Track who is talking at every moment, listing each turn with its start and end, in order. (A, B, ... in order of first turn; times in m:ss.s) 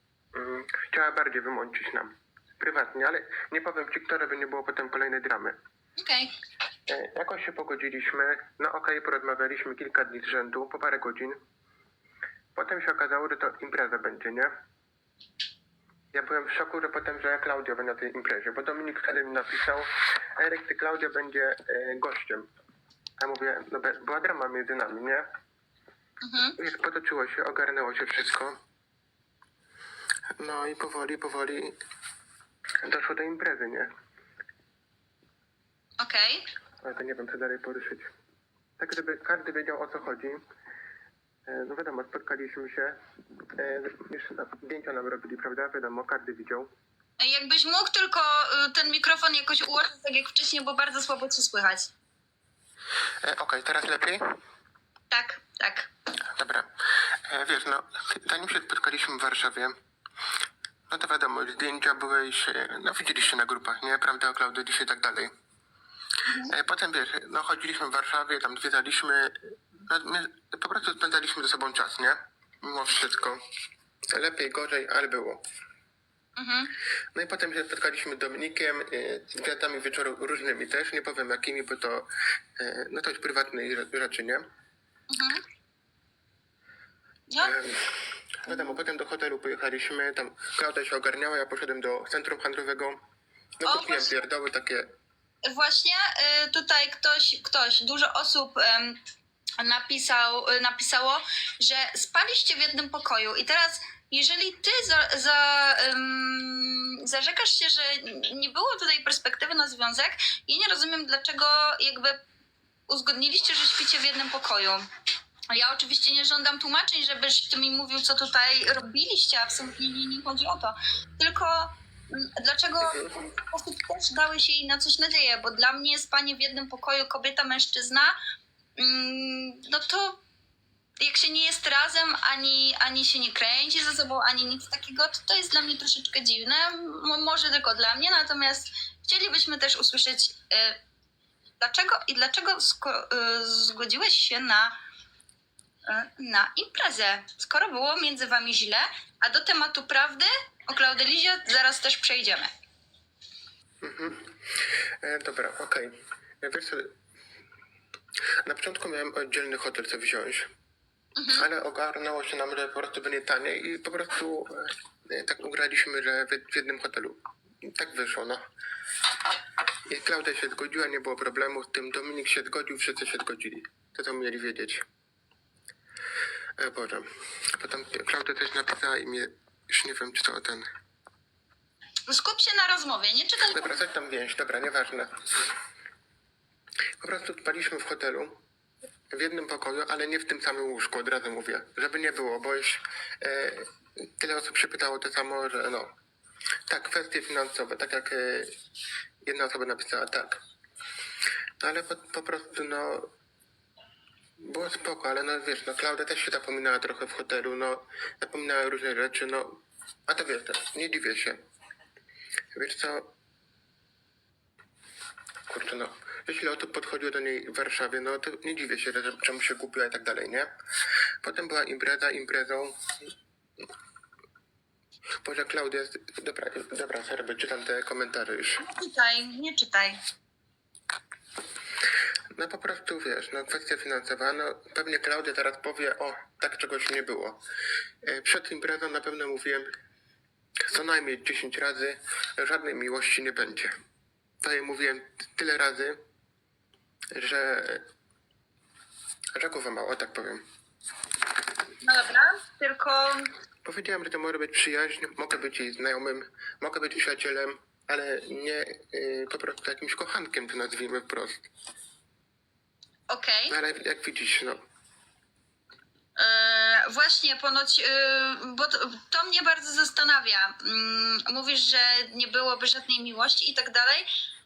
0:00.3-0:05.6 A
0:06.0-0:06.3 B
0:06.9-0:11.4 A
0:12.5-0:14.5 A
0:16.1-0:22.5 A
0:23.2-0:25.2 A
0:26.2-0:26.6 B
0:26.6-0:28.6 A
0:30.4-0:31.8 A
0:32.8-0:33.9 A
0:36.0-0:36.4 B
0:36.8-0:38.1 A
0:38.8-0:40.4 A
0:41.5-0:43.0 A
0:43.5-0:46.7 A
0:47.2-0:51.9 B
0:53.2-0:54.3 A
0:55.1-0:55.9 B
0:56.4-0:56.7 A
0:57.3-0:59.7 A
1:00.9-1:05.3 A
1:06.2-1:06.5 B
1:06.5-1:13.4 A
1:14.1-1:15.4 A
1:16.4-1:16.7 B
1:17.1-1:24.4 A
1:25.1-1:25.4 B
1:27.3-1:27.6 B
1:27.4-1:33.0 A
1:33.6-1:34.8 A
1:33.6-1:34.1 B
1:35.4-1:39.0 B
1:39.6-1:52.2 B
1:52.9-1:54.8 B
1:55.5-2:08.1 B
2:02.8-2:03.2 A
2:08.8-2:10.2 B
2:11.0-2:20.8 B
2:21.6-2:24.8 B
2:25.8-2:32.5 B
2:33.8-2:36.9 A
2:38.4-2:40.5 A
2:41.2-2:41.5 B
2:41.3-2:48.4 A
2:49.9-2:54.8 A
2:56.6-3:00.6 A
3:02.1-3:03.8 B
3:03.5-3:05.2 A
3:07.0-3:08.4 A
3:09.1-3:15.9 A
3:16.7-3:18.5 A
3:19.2-3:20.4 A
3:21.6-3:23.1 A
3:24.4-3:31.4 A
3:32.5-3:33.1 A
3:35.5-3:40.5 A
3:41.2-3:42.8 A
3:45.2-3:48.6 A
3:48.6-3:50.0 B
3:52.3-3:57.4 A
3:58.0-3:59.6 A
4:00.7-4:03.7 A
4:04.4-4:06.0 A
4:07.1-4:07.8 A
4:09.3-4:10.4 A
4:11.8-4:13.3 B
4:13.6-4:21.4 A
4:23.1-4:23.6 B
4:23.5-4:24.6 A
4:26.2-4:34.1 B